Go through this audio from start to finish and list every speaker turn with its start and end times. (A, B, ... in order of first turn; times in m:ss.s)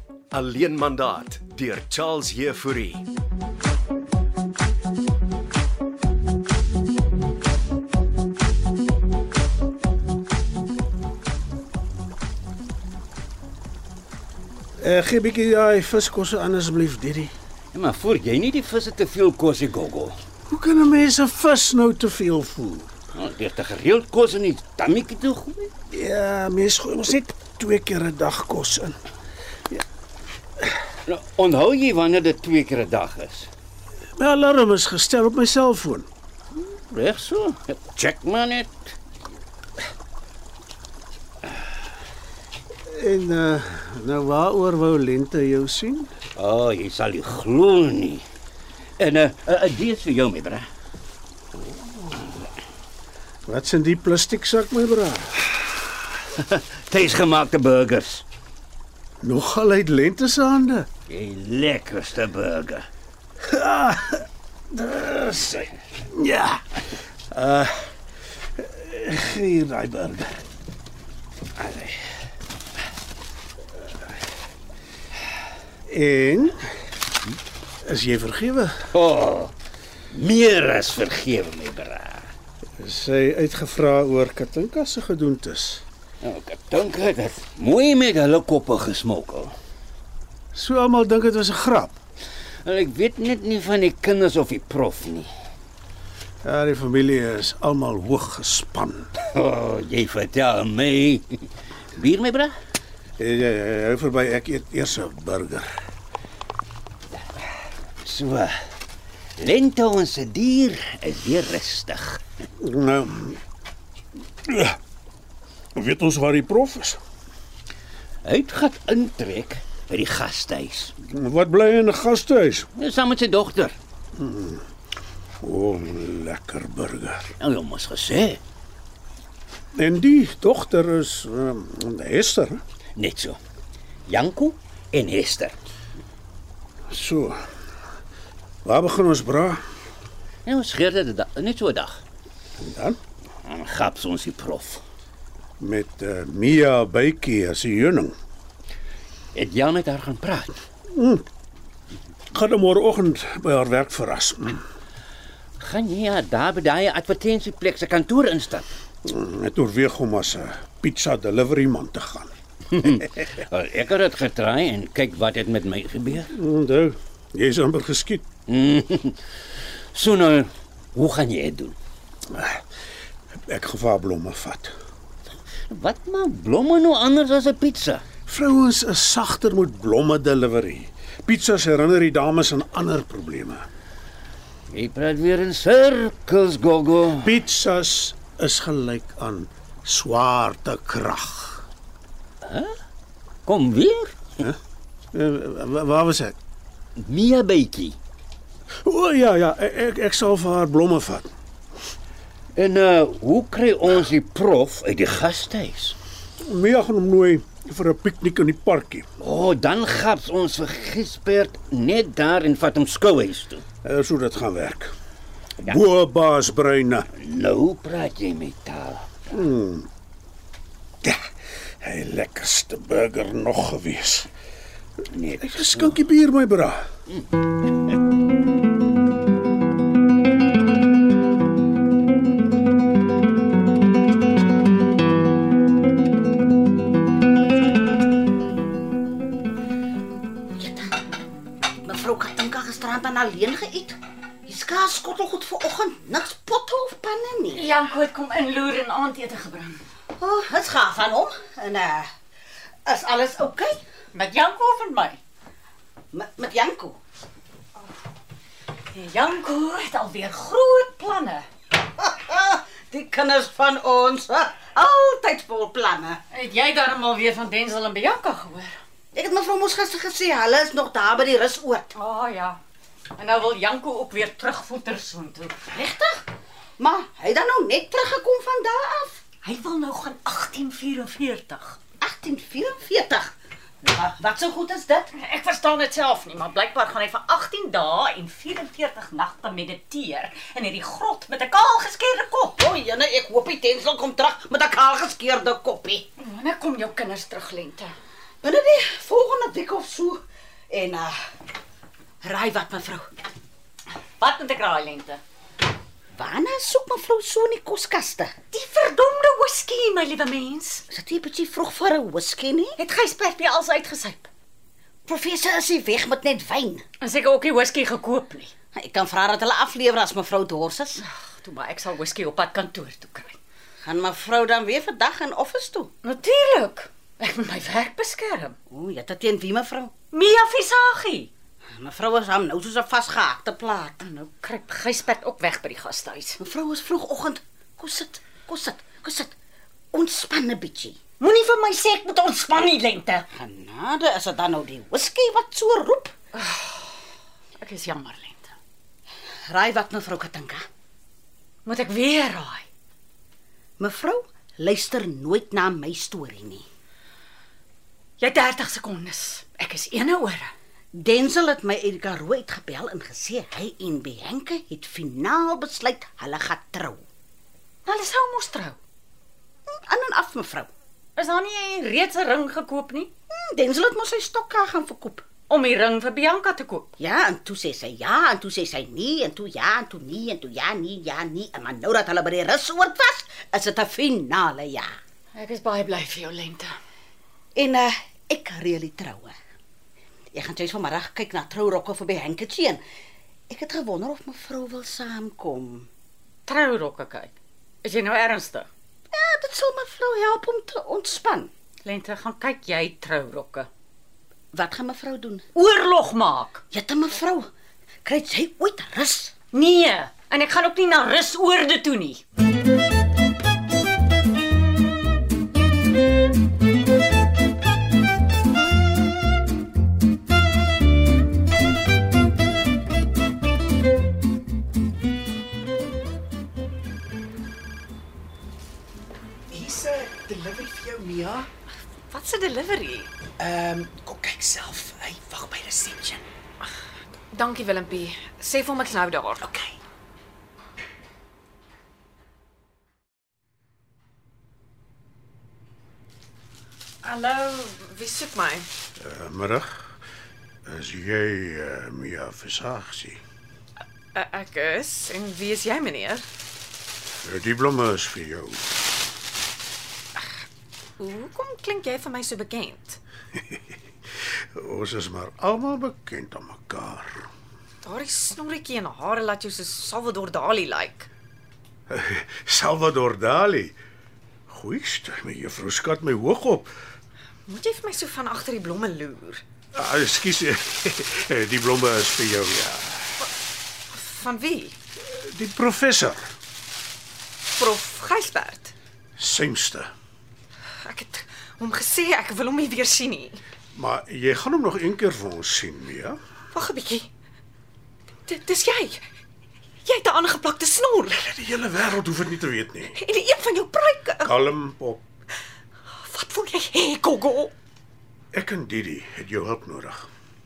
0:00.3-0:03.0 A
0:14.8-0:17.3 B
0:17.7-0:20.2 C
0:20.5-0:22.9 B
0:23.2-0:25.7 C
0:25.9-0:28.9 B
0:31.0-0:33.5 C
0:34.2-0:36.1 B
0:36.9-0:38.9 C
0:42.9-0:46.1 B
0:46.4-0:48.2 C
0:49.0-0:50.6 C
0:53.5-0:55.4 B
0:56.3-0:58.2 C
0:59.2-1:00.9 B
1:01.1-1:02.9 C
1:03.4-1:06.6 B
1:07.3-1:07.9 B
1:08.6-1:10.4 B
1:11.6-1:11.9 C
1:15.9-1:16.6 B
1:17.8-1:18.9 B
1:18.9-1:19.5 C
1:20.1-1:22.3 C
1:22.8-1:25.8 B
1:26.2-1:29.5 C
1:30.5-1:32.0 B
1:32.6-1:35.3 C
1:36.4-1:39.1 B
1:39.3-1:41.4 C
1:41.9-1:42.5 C
1:43.2-1:45.7 B
1:48.0-1:48.5 C
1:49.4-1:52.2 C
1:52.6-1:53.4 B
1:54.5-1:54.8 B
1:55.8-1:57.0 B
1:58.2-2:00.9 C
2:01.1-2:02.7 B
2:02.8-2:03.8 C
2:04.2-2:04.6 B
2:05.4-2:07.3 B
2:07.4-2:08.4 C
2:09.8-2:12.6 B
2:13.0-2:13.4 C
2:14.1-2:15.5 C
2:16.9-2:17.4 B
2:18.6-2:19.6 B
2:20.4-2:22.0 C
2:22.6-2:23.0 B
2:23.4-2:24.8 C
2:25.6-2:28.1 B
2:29.3-2:30.6 C
2:30.9-2:31.2 B
2:32.3-2:34.6 B
2:35.6-2:38.6 C
2:39.0-2:42.3 B
2:42.7-2:46.3 C
2:46.3-2:48.2 B
2:48.5-2:49.2 C
2:49.9-2:51.7 C
2:52.3-2:52.6 B
2:53.5-2:54.7 B
2:55.7-2:58.0 C
2:58.3-3:03.6 B
3:04.7-3:07.4 C
3:07.2-3:11.6 B
3:12.4-3:12.7 C
3:13.4-3:14.2 C
3:15.1-3:16.4 B
3:17.0-3:18.0 C
3:18.8-3:21.3 B
3:22.6-3:26.0 C
3:26.4-3:29.0 B
3:29.2-3:33.6 C
3:33.8-3:34.9 B
3:35.6-3:37.1 B
3:37.1-3:39.4 C
3:39.3-3:39.9 B
3:41.0-3:41.3 B
3:41.8-3:44.3 B
3:45.1-3:46.0 C
3:45.4-3:46.9 B
4:00.6-4:01.0 D
4:01.8-4:07.7 D
4:07.5-4:09.8 E
4:10.2-4:12.1 D
4:12.8-4:13.8 D
4:14.1-4:15.2 E
4:16.1-4:17.0 D
4:18.9-4:21.4 E
4:22.0-4:26.2 D
4:26.3-4:28.8 E
4:29.1-4:31.9 D
4:31.9-4:32.6 E
4:33.2-4:35.7 E
4:35.7-4:36.2 D
4:36.8-4:39.2 D
4:39.4-4:41.8 E
4:42.0-4:43.3 D
4:43.8-4:45.1 D
4:45.1-4:52.6 E
4:52.6-4:56.1 D
4:56.2-4:57.9 E
4:58.4-5:01.2 D
5:02.2-5:03.1 D
5:04.2-5:05.2 E
5:06.1-5:08.3 D
5:08.5-5:10.8 E
5:10.9-5:12.8 D
5:12.8-5:14.3 E
5:15.1-5:16.8 D
5:17.0-5:18.5 E
5:18.7-5:21.0 D
5:21.0-5:23.4 E
5:23.8-5:25.9 D
5:26.0-5:28.6 E
5:28.7-5:29.9 D
5:30.1-5:31.3 E
5:31.7-5:34.0 D
5:34.0-5:36.4 E
5:36.4-5:39.3 D
5:39.9-5:41.0 D
5:41.2-5:43.2 E
5:43.3-5:46.1 D
5:46.4-5:47.0 E
5:47.6-5:48.5 E
5:49.5-5:50.6 D
5:51.6-5:52.6 E
5:53.8-5:56.6 D
5:58.2-6:00.5 E
6:00.9-6:07.0 D
6:07.8-6:08.8 E
6:09.9-6:10.7 D
6:11.2-6:13.1 E
6:13.3-6:15.2 D
6:15.5-6:16.9 E
6:17.0-6:24.9 D
6:25.3-6:26.7 E
6:27.5-6:29.3 D
6:30.3-6:32.8 D
6:33.5-6:35.9 D
6:36.4-6:38.7 E
6:39.1-6:41.5 D
6:41.8-6:43.7 E
6:44.5-6:45.4 D
6:45.5-6:46.6 E
6:46.7-6:47.5 D
6:48.0-6:49.3 D
6:49.5-6:52.2 E
7:09.5-7:11.5 F
7:12.1-7:13.1 G
7:13.4-7:16.2 F
7:17.3-7:19.4 G
7:27.0-7:28.7 G
7:29.0-7:29.7 B
7:30.7-7:33.2 B
7:34.1-7:36.2 G
7:37.2-7:38.7 B
7:41.0-7:43.0 G
7:44.5-7:47.3 B
7:47.8-7:51.1 G
7:51.9-7:53.8 B
7:54.5-7:56.7 B
7:57.5-7:59.4 G
7:59.7-8:03.1 B
8:03.9-8:04.8 G
8:05.0-8:06.2 B
8:07.5-8:08.7 G
8:09.2-8:09.9 B
8:10.8-8:13.4 G
8:13.7-8:16.2 B
8:16.5-8:17.1 G
8:18.3-8:19.0 G
8:19.8-8:21.2 G
8:21.2-8:23.0 B
8:23.0-8:24.4 G
8:24.2-8:25.0 B
8:25.9-8:27.5 G
8:28.3-8:30.1 B